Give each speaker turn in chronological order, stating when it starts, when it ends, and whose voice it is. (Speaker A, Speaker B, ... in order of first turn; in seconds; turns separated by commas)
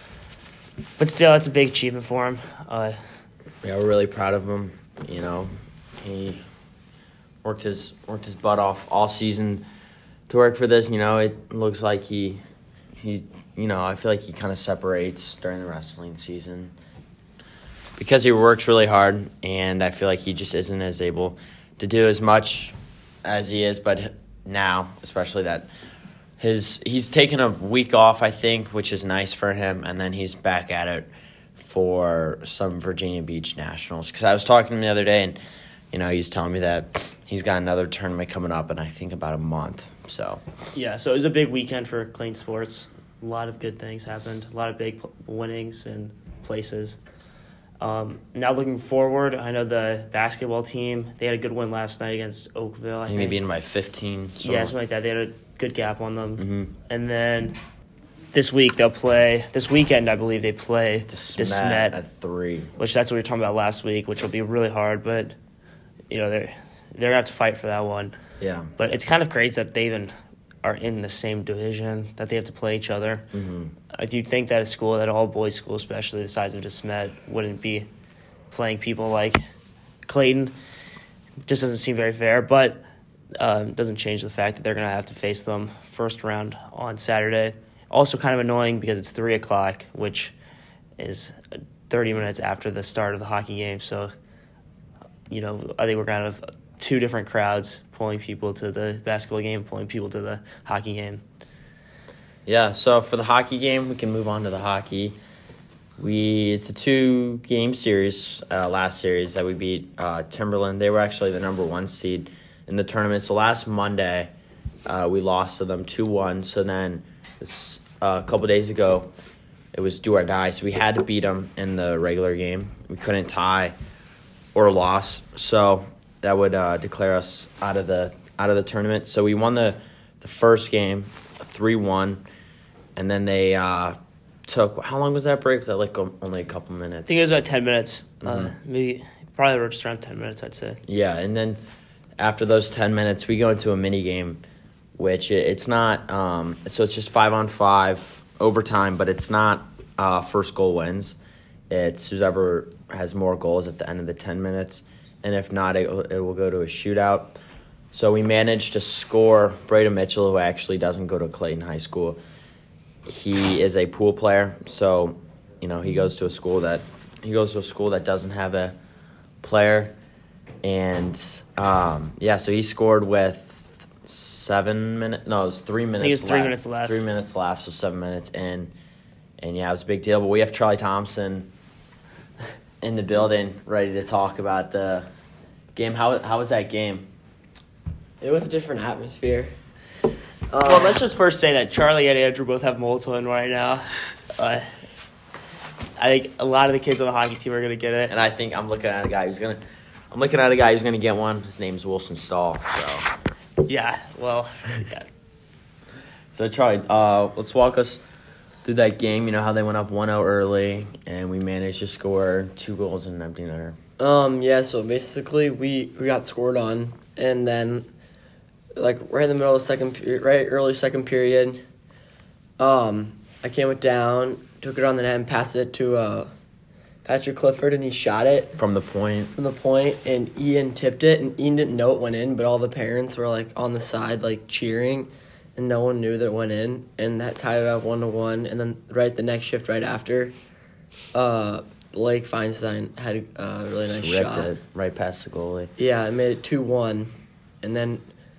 Speaker A: 1.0-3.2, Speaker B: 3.6-6.4, Speaker B: 7.4-9.6, Speaker B: 10.3-12.4, Speaker B: 13.0-16.7, Speaker B: 18.0-25.7, Speaker B: 26.4-35.4, Speaker B: 35.9-40.4, Speaker A: 40.7-47.0, Speaker A: 47.8-53.4, Speaker B: 53.1-54.7, Speaker A: 54.4-57.6, Speaker B: 56.4-56.7, Speaker A: 58.3-62.0, Speaker B: 61.1-62.7, Speaker A: 62.8-65.3, Speaker A: 66.1-68.2, Speaker B: 68.4-68.7, Speaker A: 68.8-70.1, Speaker A: 70.6-73.3, Speaker B: 73.3-73.7, Speaker A: 73.9-77.9, Speaker A: 78.5-79.4, Speaker A: 80.1-80.5, Speaker A: 81.5-82.8, Speaker A: 83.4-90.3, Speaker A: 91.0-94.1, Speaker A: 95.3-101.2, Speaker B: 102.5-105.2, Speaker B: 106.0-114.3, Speaker B: 114.9-119.1, Speaker B: 119.7-123.7, Speaker B: 124.5-132.2, Speaker B: 133.0-137.2, Speaker A: 137.1-140.8, Speaker B: 138.2-138.6, Speaker B: 140.9-141.6, Speaker B: 142.2-144.4, Speaker B: 145.0-151.2, Speaker B: 151.7-157.4, Speaker B: 157.9-162.2, Speaker B: 163.1-168.8, Speaker B: 169.4-169.9, Speaker B: 170.6-178.7, Speaker A: 176.0-177.1, Speaker B: 179.4-181.5, Speaker B: 182.8-185.1, Speaker B: 185.8-187.1, Speaker C: 188.2-189.5, Speaker C: 190.5-191.0, Speaker A: 190.6-194.7, Speaker A: 196.0-198.1, Speaker B: 198.1-199.6, Speaker B: 200.1-203.1, Speaker A: 203.6-205.1, Speaker B: 206.3-208.0, Speaker B: 208.6-213.8, Speaker C: 214.0-217.9, Speaker C: 218.8-221.6, Speaker C: 222.6-226.3, Speaker C: 227.1-228.6, Speaker B: 228.6-229.3, Speaker C: 229.4-240.3, Speaker C: 241.1-244.5, Speaker B: 243.9-245.7, Speaker C: 245.8-247.1, Speaker C: 247.6-248.1